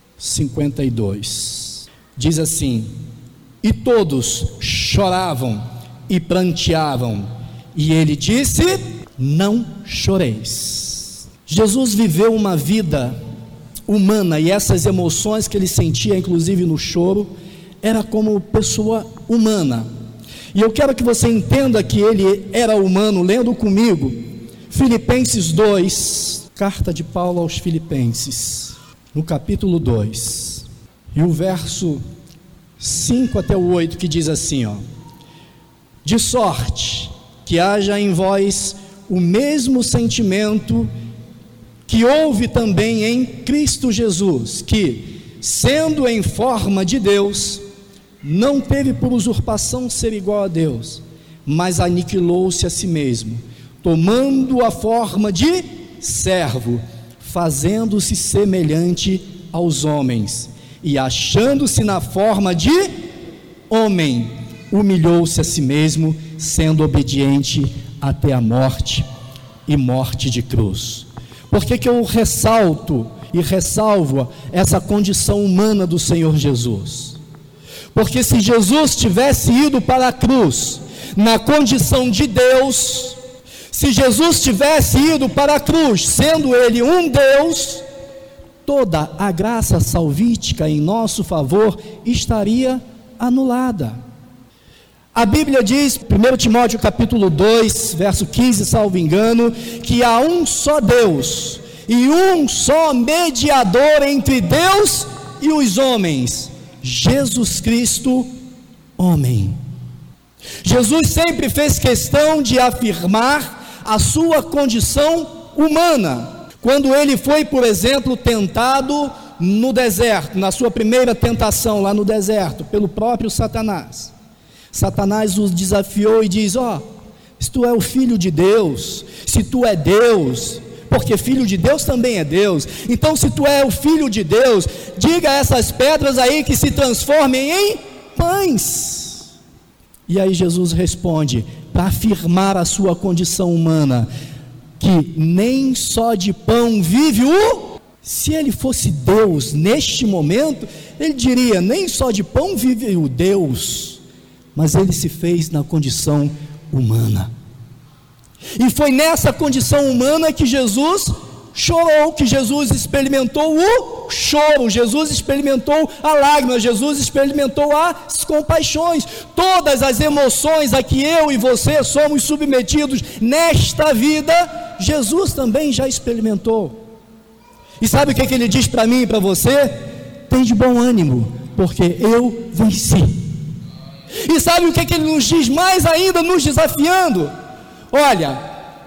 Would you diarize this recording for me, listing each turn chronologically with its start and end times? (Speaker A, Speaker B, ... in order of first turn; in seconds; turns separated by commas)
Speaker A: 0.2-2.9, Speaker A: 3.6-13.2, Speaker A: 13.9-17.3, Speaker A: 17.8-19.9, Speaker A: 20.5-32.0, Speaker A: 32.8-34.8, Speaker A: 36.0-40.9, Speaker A: 41.9-47.6, Speaker A: 48.2-63.0, Speaker A: 63.7-69.1, Speaker A: 69.7-77.2, Speaker A: 77.9-83.2, Speaker A: 83.7-87.8, Speaker A: 88.7-94.0, Speaker A: 95.1-108.3, Speaker A: 109.0-109.6, Speaker A: 110.6-124.1, Speaker A: 124.7-126.8, Speaker A: 127.4-139.2, Speaker A: 140.1-144.1, Speaker A: 144.8-154.0, Speaker A: 154.6-157.3, Speaker A: 158.6-176.8, Speaker A: 177.8-179.8, Speaker A: 180.3-183.2, Speaker A: 184.3-187.3, Speaker A: 187.9-188.4